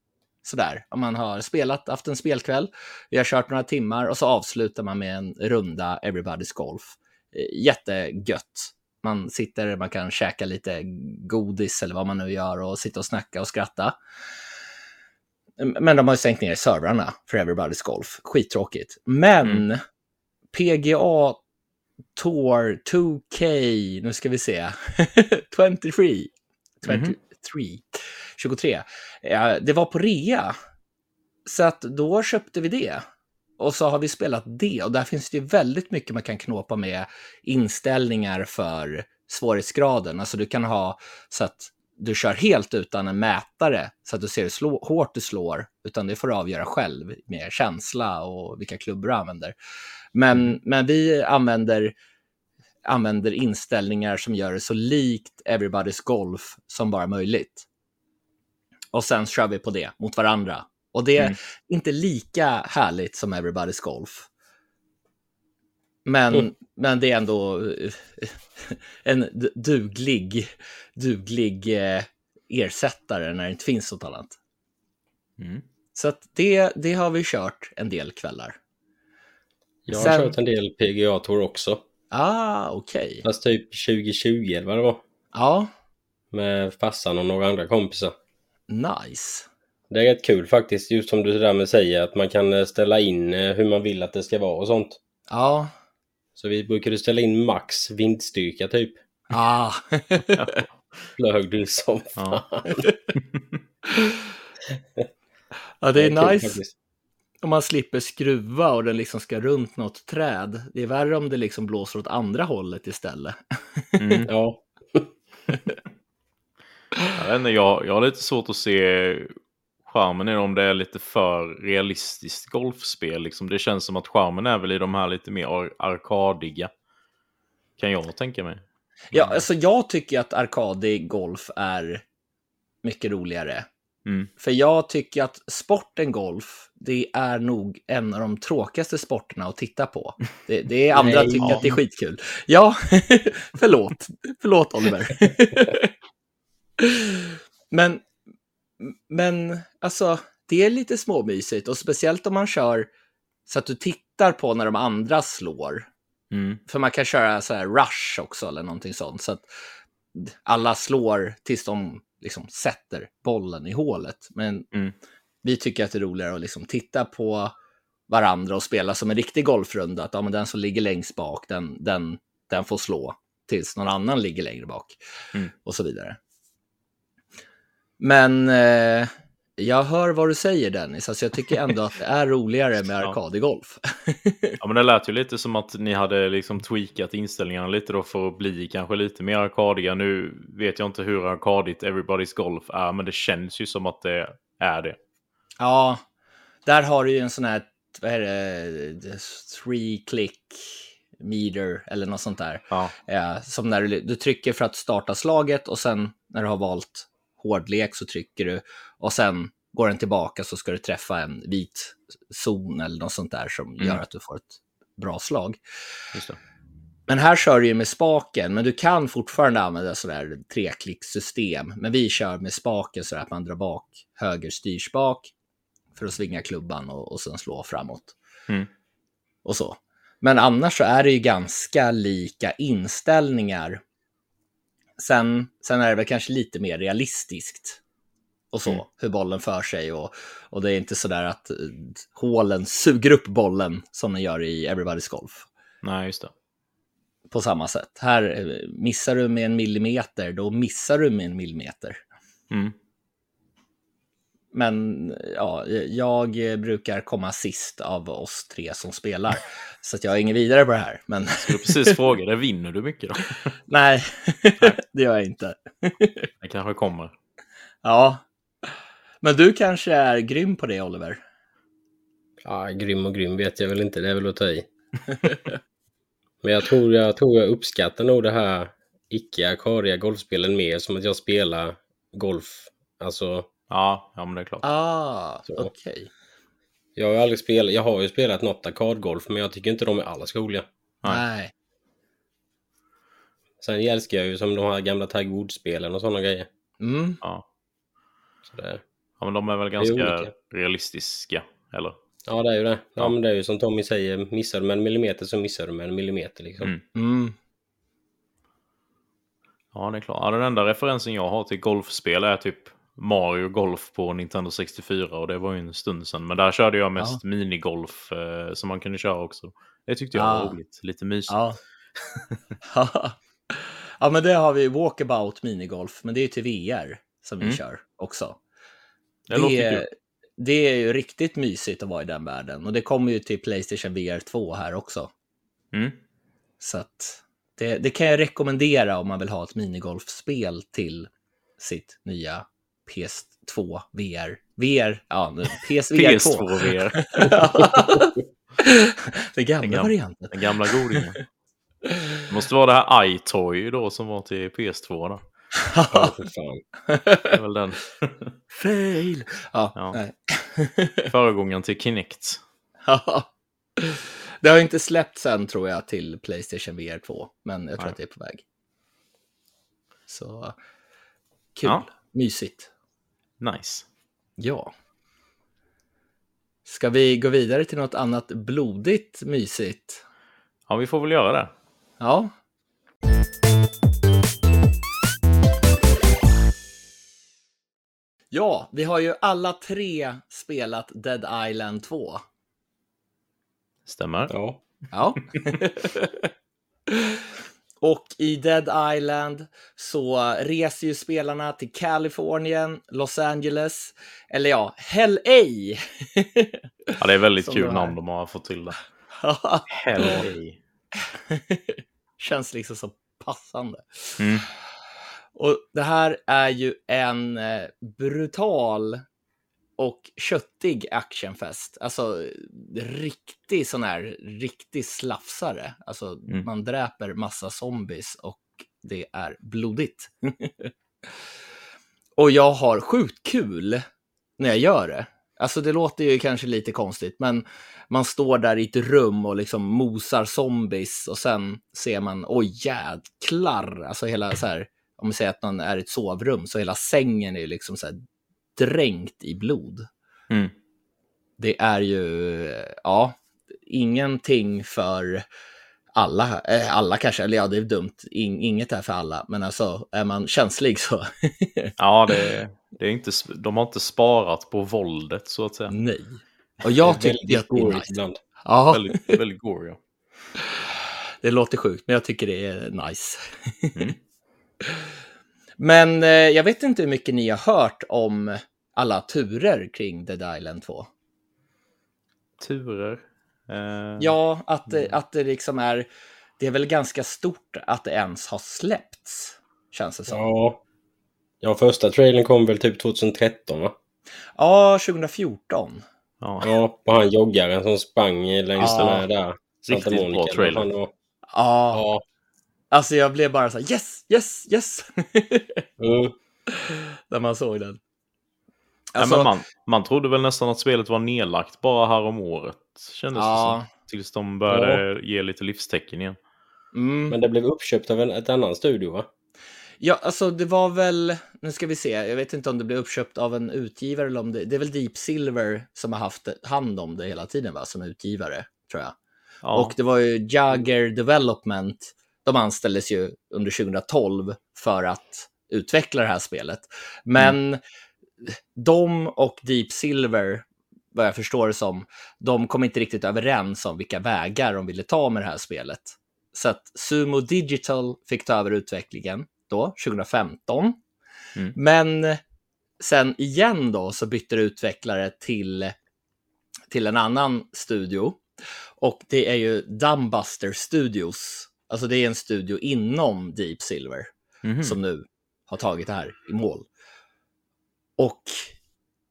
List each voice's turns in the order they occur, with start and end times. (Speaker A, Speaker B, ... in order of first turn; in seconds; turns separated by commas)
Speaker A: 0.4-13.9, Speaker A: 15.6-19.8, Speaker A: 20.5-21.4, Speaker A: 22.1-30.5, Speaker B: 26.9-27.1, Speaker A: 31.4-33.0, Speaker A: 33.6-49.5, Speaker A: 50.1-51.9, Speaker A: 52.8-57.6, Speaker A: 58.9-64.3, Speaker A: 66.0-74.4, Speaker B: 75.4-75.6, Speaker A: 75.9-78.6, Speaker C: 79.8-81.8, Speaker A: 79.9-80.3, Speaker A: 82.1-83.2, Speaker C: 83.2-85.0, Speaker A: 85.3-85.7, Speaker C: 86.3-88.1, Speaker A: 88.7-89.5, Speaker C: 89.9-95.0, Speaker A: 95.3-95.7, Speaker C: 96.3-99.0, Speaker A: 99.3-100.6, Speaker B: 100.4-100.6, Speaker C: 101.2-102.8, Speaker B: 102.2-102.4, Speaker A: 103.9-104.3, Speaker C: 104.7-105.1, Speaker A: 105.8-106.6, Speaker C: 106.0-106.7, Speaker A: 107.4-114.2, Speaker B: 114.0-114.3, Speaker C: 114.3-115.1, Speaker B: 117.1-119.3, Speaker B: 119.8-126.7, Speaker B: 127.8-129.4, Speaker A: 129.1-132.0, Speaker A: 132.8-133.7, Speaker B: 134.0-134.3, Speaker A: 134.4-145.9, Speaker C: 140.9-141.7, Speaker A: 146.8-148.1, Speaker A: 148.8-152.9, Speaker A: 153.5-155.9, Speaker B: 156.3-156.6, Speaker A: 156.7-159.4, Speaker A: 160.1-164.7, Speaker A: 165.4-167.5, Speaker A: 168.1-175.0, Speaker A: 175.6-176.2, Speaker A: 178.0-184.6, Speaker B: 184.6-195.0, Speaker A: 195.6-196.0, Speaker A: 196.7-215.6, Speaker A: 217.1-225.3, Speaker A: 225.9-228.2, Speaker A: 229.4-233.8, Speaker A: 235.0-237.8, Speaker A: 238.5-245.5, Speaker B: 245.8-246.3, Speaker A: 247.3-252.0, Speaker A: 254.5-262.0, Speaker B: 261.4-263.5, Speaker A: 263.7-266.3, Speaker B: 266.4-267.1, Speaker A: 267.8-268.2, Speaker A: 269.2-271.2, Speaker C: 272.4-274.7, Speaker A: 275.2-275.5, Speaker C: 276.4-283.5, Speaker B: 283.7-284.6, Speaker A: 284.6-286.1, Speaker C: 285.4-285.7, Speaker C: 286.9-290.7, Speaker A: 291.0-291.5, Speaker C: 293.6-296.5, Speaker A: 296.8-297.2, Speaker C: 298.4-298.8, Speaker B: 299.2-302.0, Speaker C: 299.8-300.3, Speaker C: 302.3-306.7, Speaker A: 306.9-307.4, Speaker B: 309.7-321.4, Speaker A: 320.1-320.6, Speaker A: 321.3-321.6, Speaker A: 322.6-328.4, Speaker B: 329.3-329.8, Speaker A: 329.3-335.1, Speaker A: 336.6-351.1, Speaker B: 345.9-347.4, Speaker C: 347.6-348.2, Speaker B: 349.6-351.2, Speaker A: 351.9-352.2, Speaker B: 352.3-355.2, Speaker A: 355.5-356.1, Speaker C: 355.9-356.6, Speaker A: 356.9-357.4, Speaker B: 357.2-358.3, Speaker A: 358.5-361.1, Speaker B: 361.1-362.4, Speaker A: 362.8-368.4, Speaker A: 370.1-370.6, Speaker A: 371.6-372.7, Speaker B: 373.4-373.9, Speaker A: 374.4-374.7, Speaker A: 376.6-380.0, Speaker B: 380.7-381.5, Speaker A: 382.0-382.3, Speaker A: 388.3-392.2, Speaker B: 393.9-394.3, Speaker C: 394.3-394.6, Speaker A: 394.9-396.3, Speaker A: 396.9-397.3, Speaker A: 397.8-407.9, Speaker B: 407.0-408.8, Speaker A: 409.2-410.3, Speaker B: 409.7-410.6, Speaker A: 411.0-414.4, Speaker B: 414.2-414.4, Speaker A: 415.4-419.0, Speaker A: 419.8-430.7, Speaker A: 432.2-433.8, Speaker A: 434.4-448.0, Speaker A: 448.6-449.9, Speaker A: 451.4-455.2, Speaker A: 455.9-462.1, Speaker B: 461.8-465.8, Speaker A: 465.7-469.2, Speaker C: 466.8-468.2, Speaker B: 468.7-469.8, Speaker A: 471.2-473.9, Speaker A: 475.6-480.9, Speaker B: 482.4-484.1, Speaker A: 484.0-485.9, Speaker A: 486.4-490.2, Speaker C: 490.1-490.6, Speaker C: 491.4-493.8, Speaker A: 494.4-495.8, Speaker B: 496.2-496.5, Speaker C: 496.4-500.9, Speaker A: 498.6-499.0, Speaker B: 498.7-499.0, Speaker B: 499.7-500.7, Speaker A: 501.3-501.8, Speaker C: 501.7-502.0, Speaker A: 502.7-505.6, Speaker C: 505.8-506.1, Speaker A: 506.5-507.8, Speaker A: 508.9-509.3, Speaker B: 509.0-516.2, Speaker A: 513.1-513.7, Speaker C: 514.5-514.8, Speaker A: 516.7-517.2, Speaker C: 517.1-519.1, Speaker A: 519.8-528.9, Speaker B: 529.4-529.7, Speaker A: 529.5-537.6, Speaker A: 538.2-550.8, Speaker A: 551.5-552.2, Speaker A: 552.8-555.8, Speaker A: 556.7-558.2, Speaker A: 558.8-564.1, Speaker B: 564.4-564.8, Speaker A: 564.6-566.7, Speaker A: 568.0-568.5